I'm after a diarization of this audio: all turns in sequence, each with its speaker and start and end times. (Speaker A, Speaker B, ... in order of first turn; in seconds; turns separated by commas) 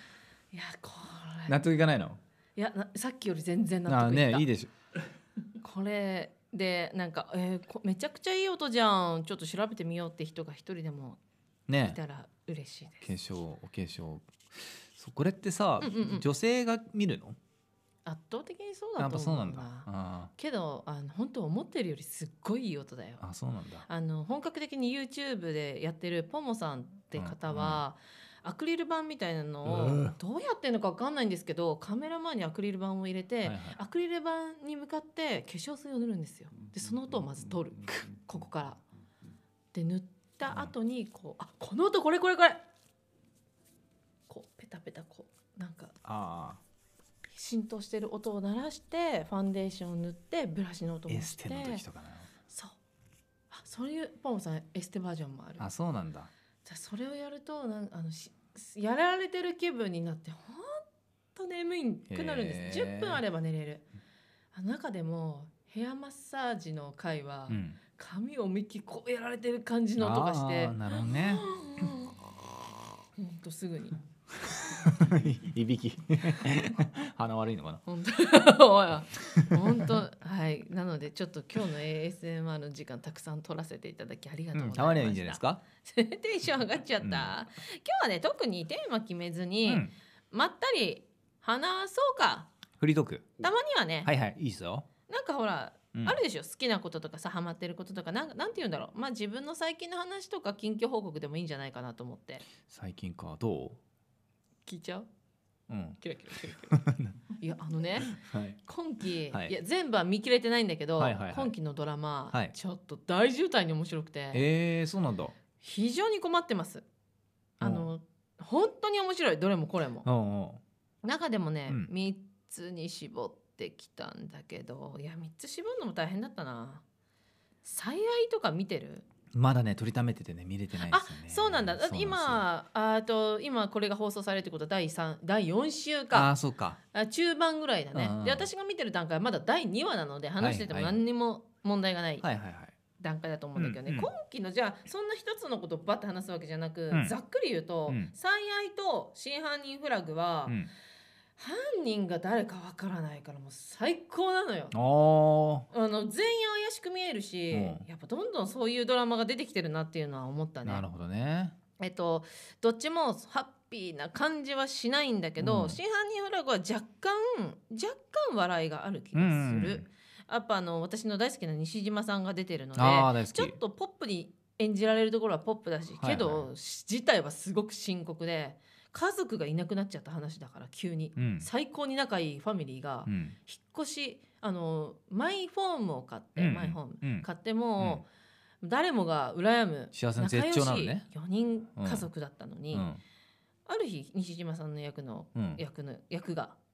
Speaker A: 0.5-1.6, Speaker B: 1.5-2.2, Speaker A: 2.5-4.5, Speaker B: 3.9-4.7, Speaker A: 5.6-11.2, Speaker B: 11.7-12.0, Speaker A: 11.8-13.1, Speaker B: 13.0-17.4, Speaker A: 15.8-16.3, Speaker A: 18.1-23.2, Speaker B: 19.0-20.3, Speaker B: 23.2-23.9, Speaker A: 23.9-38.8, Speaker B: 27.1-27.8, Speaker B: 29.6-30.1, Speaker B: 33.4-33.8, Speaker A: 39.7-42.6, Speaker A: 44.3-45.9, Speaker B: 46.0-46.6, Speaker A: 47.3-51.8, Speaker B: 51.1-52.3, Speaker A: 52.5-52.8, Speaker A: 53.5-55.7, Speaker B: 55.6-56.3, Speaker A: 56.6-63.9, Speaker B: 62.1-63.2, Speaker A: 64.5-72.2, Speaker B: 67.5-67.8, Speaker B: 70.0-71.4, Speaker A: 73.2-74.0, Speaker B: 74.5-77.8, Speaker A: 77.8-92.5, Speaker B: 79.3-79.9, Speaker B: 84.5-85.6, Speaker B: 87.0-87.3, Speaker B: 89.7-89.9, Speaker B: 92.8-93.4, Speaker A: 93.4-94.1, Speaker B: 94.0-94.9, Speaker A: 95.1-102.4, Speaker B: 95.9-96.2, Speaker B: 102.6-103.8, Speaker A: 104.7-105.1, Speaker B: 105.7-107.2, Speaker A: 106.0-106.8, Speaker A: 107.3-114.4, Speaker B: 108.0-108.6, Speaker B: 111.0-111.5, Speaker B: 114.3-115.3, Speaker A: 115.6-116.8, Speaker B: 117.6-117.9, Speaker A: 117.6-120.1, Speaker B: 120.0-120.6, Speaker A: 121.0-126.8, Speaker A: 127.6-129.1, Speaker B: 129.3-132.4, Speaker A: 130.8-136.3, Speaker B: 136.1-136.8, Speaker A: 136.9-142.2, Speaker B: 137.9-138.5, Speaker B: 140.4-141.0, Speaker B: 142.2-142.7, Speaker A: 143.0-150.6, Speaker B: 143.6-144.1, Speaker A: 151.4-154.7, Speaker B: 154.7-155.7, Speaker A: 155.7-160.8, Speaker B: 157.5-157.8, Speaker B: 160.6-161.6, Speaker A: 161.8-188.1, Speaker B: 165.4-165.8, Speaker B: 169.1-169.9, Speaker B: 172.8-173.5, Speaker B: 176.0-176.5, Speaker B: 181.2-181.5, Speaker B: 183.1-183.3, Speaker B: 186.4-187.2, Speaker A: 188.6-192.9, Speaker B: 189.9-191.1, Speaker B: 191.8-192.1, Speaker B: 192.7-193.0, Speaker A: 193.7-196.6, Speaker B: 195.3-195.6